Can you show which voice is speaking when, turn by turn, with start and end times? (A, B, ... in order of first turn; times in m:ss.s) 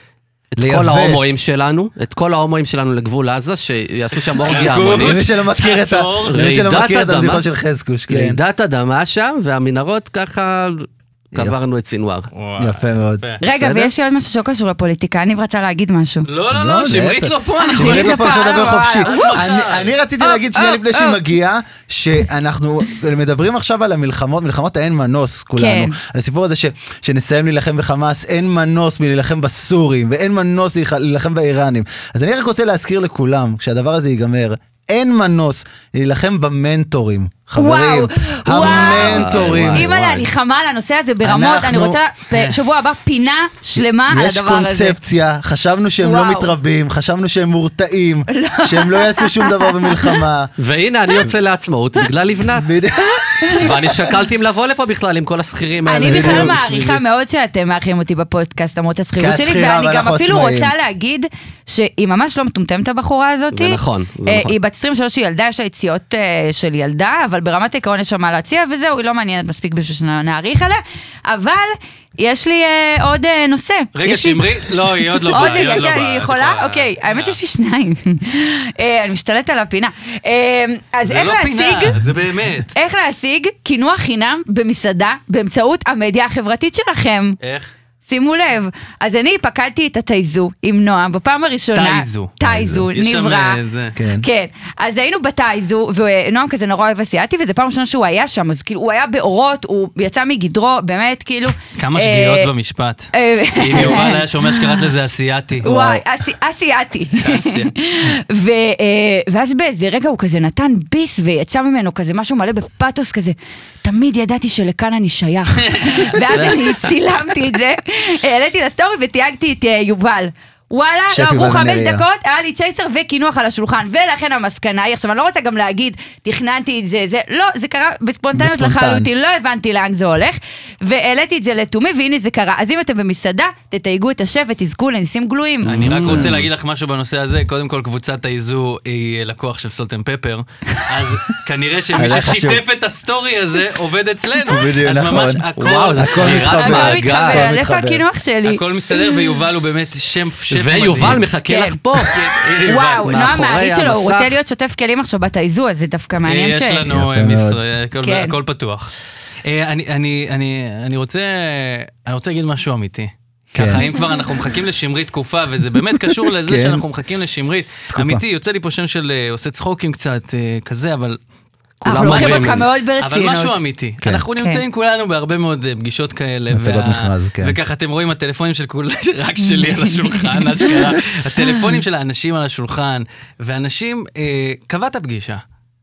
0:00.5-0:05.2 A
0:00.6-0:01.2 B
0:04.4-0:06.4 C
0:04.6-0:08.4 B
0:06.3-0:07.4 A
0:08.1-0:12.3 A
0:12.3-0:13.4 C
0:12.6-0:13.2 B
0:13.4-0:16.3 D
0:13.4-0:13.9 A
0:16.3-0:19.9 C
0:16.5-0:40.3 B
0:17.6-0:19.4 D
0:20.2-0:21.2 D
0:25.6-0:26.0 D
0:37.6-0:45.0 D
0:38.5-0:39.9 A
0:41.2-0:42.0 B
0:42.3-0:42.6 C
0:43.8-0:50.5 B
0:46.0-0:46.5 D
0:48.3-0:50.2 D
0:50.6-0:52.7 A
0:52.6-0:54.0 B
0:53.2-0:53.7 D
0:53.6-0:57.0 A
0:55.9-1:22.0 D
0:56.1-0:56.6 B
0:59.2-1:00.7 B
1:03.5-1:04.5 A
1:14.0-1:17.4 C
1:21.0-1:22.8 C
1:22.7-1:27.4 D
1:27.4-1:27.7 C
1:28.1-1:33.6 D
1:31.8-1:32.4 C
1:32.4-1:32.9 B
1:32.9-1:34.0 C
1:34.0-1:34.3 B
1:34.2-1:42.5 D
1:41.8-1:45.7 C
1:43.1-1:44.9 D
1:45.6-2:16.2 D
1:45.6-1:46.0 B
1:47.2-1:47.7 C
1:55.6-1:56.5 C
1:56.3-1:56.8 A
2:01.1-2:02.0 B
2:08.4-2:09.1 B
2:15.6-2:27.0 C
2:15.6-2:16.5 A
2:21.9-2:22.6 B
2:24.5-2:28.0 B
2:25.6-2:27.5 A
2:26.3-2:29.2 D
2:28.4-2:31.3 C
2:30.5-2:34.4 A
2:31.5-2:31.8 D
2:32.0-2:33.2 C
2:32.6-2:36.8 D
2:36.2-2:38.9 C
2:36.9-2:37.6 B
2:38.0-2:38.4 D
2:39.5-2:51.2 C
2:43.6-2:43.8 B
2:46.4-2:46.8 B
2:47.9-2:48.2 B
2:51.8-2:52.7 A
2:51.8-2:53.6 D
2:51.9-3:05.4 C
2:54.4-2:54.6 D
2:56.5-2:57.6 B
2:59.6-3:00.8 D